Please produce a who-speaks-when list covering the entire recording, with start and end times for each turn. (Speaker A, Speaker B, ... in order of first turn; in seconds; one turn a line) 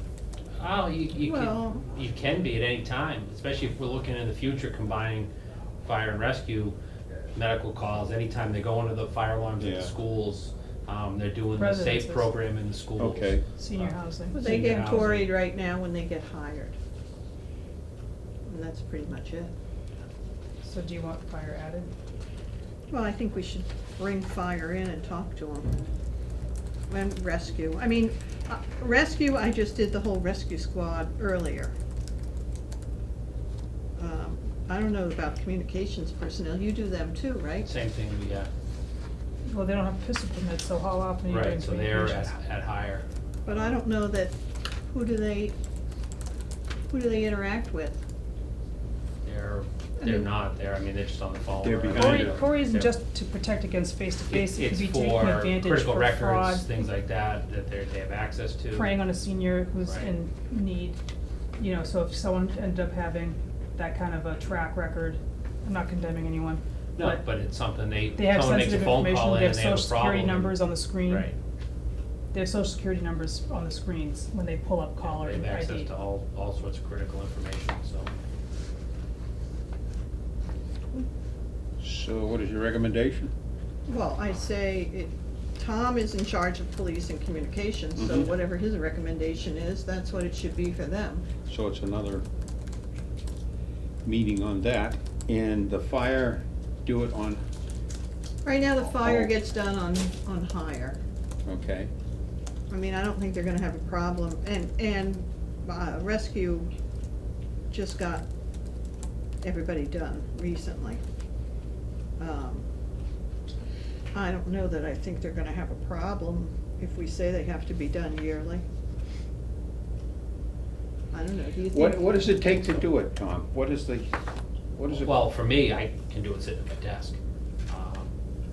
Speaker A: 0.6-5.3
Speaker B: 1.2-1.8
Speaker A: 5.8-6.8
Speaker A: 7.3-15.3
Speaker C: 9.6-9.9
Speaker D: 11.6-12.3
Speaker C: 13.0-13.4
Speaker D: 13.6-14.7
Speaker B: 14.3-16.8
Speaker B: 18.5-19.5
Speaker D: 20.6-21.9
Speaker B: 22.9-25.8
Speaker B: 26.9-31.7
Speaker B: 34.0-37.7
Speaker A: 37.6-38.5
Speaker D: 39.5-42.4
Speaker A: 41.3-43.6
Speaker B: 43.5-44.4
Speaker B: 44.9-45.5
Speaker B: 46.9-48.0
Speaker A: 49.2-52.9
Speaker B: 50.0-50.3
Speaker C: 51.6-52.4
Speaker D: 51.9-56.7
Speaker A: 54.3-58.9
Speaker D: 58.7-61.0
Speaker A: 59.9-60.1
Speaker D: 61.6-67.2
Speaker A: 67.0-71.3
Speaker D: 68.2-71.3
Speaker D: 72.3-75.9
Speaker A: 75.0-78.1
Speaker C: 81.8-83.3
Speaker B: 83.9-91.3
Speaker C: 88.0-88.3
Speaker C: 91.5-92.2
Speaker C: 94.0-97.4
Speaker B: 98.4-101.0
Speaker C: 99.0-99.3
Speaker C: 101.5-101.9
Speaker B: 102.7-106.7
Speaker B: 107.7-108.2
Speaker B: 109.4-111.0
Speaker B: 112.2-112.7
Speaker B: 114.1-118.6
Speaker B: 121.1-122.5
Speaker C: 121.7-124.1
Speaker C: 124.7-125.3
Speaker A: 124.9-127.2
Speaker A: 127.7-128.1